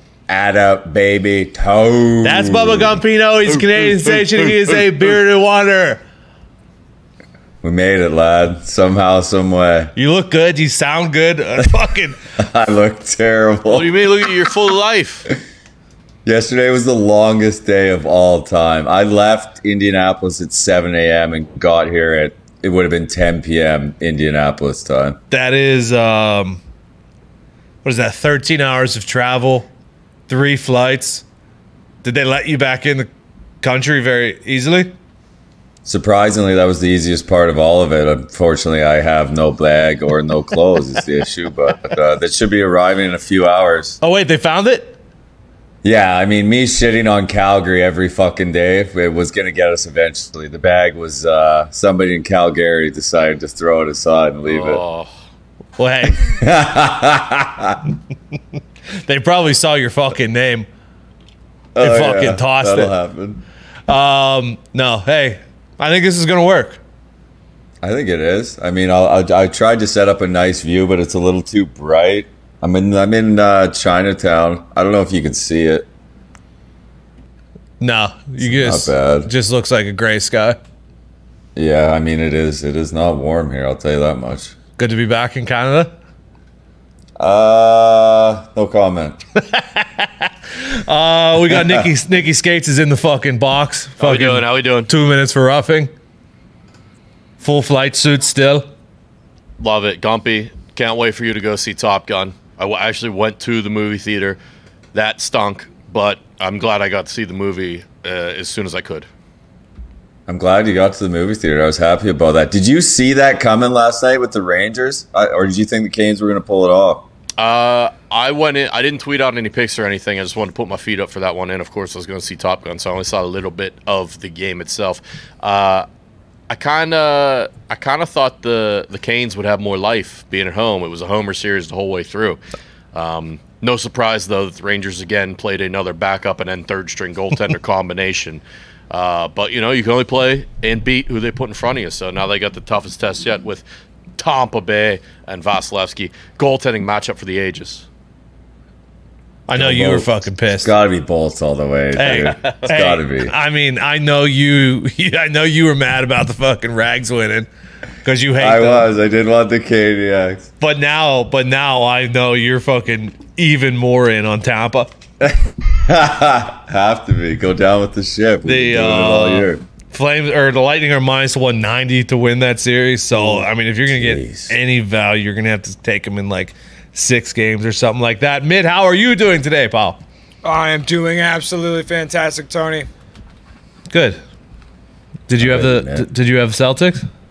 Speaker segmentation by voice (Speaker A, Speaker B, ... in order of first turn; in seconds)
Speaker A: 0.3-3.0, 7.6-9.9, 12.4-13.9, 16.2-25.2, 35.9-44.0, 45.8-54.8, 56.1-57.9, 61.8-63.4, 67.8-75.9, 78.4-79.3, 81.6-84.5, 87.2-89.2, 91.5-91.9, 110.3-117.1, 149.5-153.3, 158.4-160.5, 165.2-169.6, 173.1-174.5, 185.4-186.1
Speaker B: 2.2-6.0, 10.0-12.2, 25.3-26.6, 27.8-29.7, 30.3-31.2, 32.0-33.1, 33.6-34.9, 44.0-45.0, 55.8-56.2, 59.0-60.7, 61.8-62.9, 63.9-66.8, 77.8-80.6, 84.8-85.9, 89.4-95.9, 97.4-98.7, 149.5-150.7, 151.9-157.5, 158.0-158.9, 160.6-164.9, 168.4-180.0, 183.9-184.2, 185.3-187.0
Speaker C: 3.6-4.9, 13.7-15.3, 54.5-55.1, 94.0-94.9, 99.6-104.4, 104.9-109.1, 117.4-125.9, 126.5-132.4, 132.9-143.6, 144.2-147.9
Speaker D: 180.4-182.9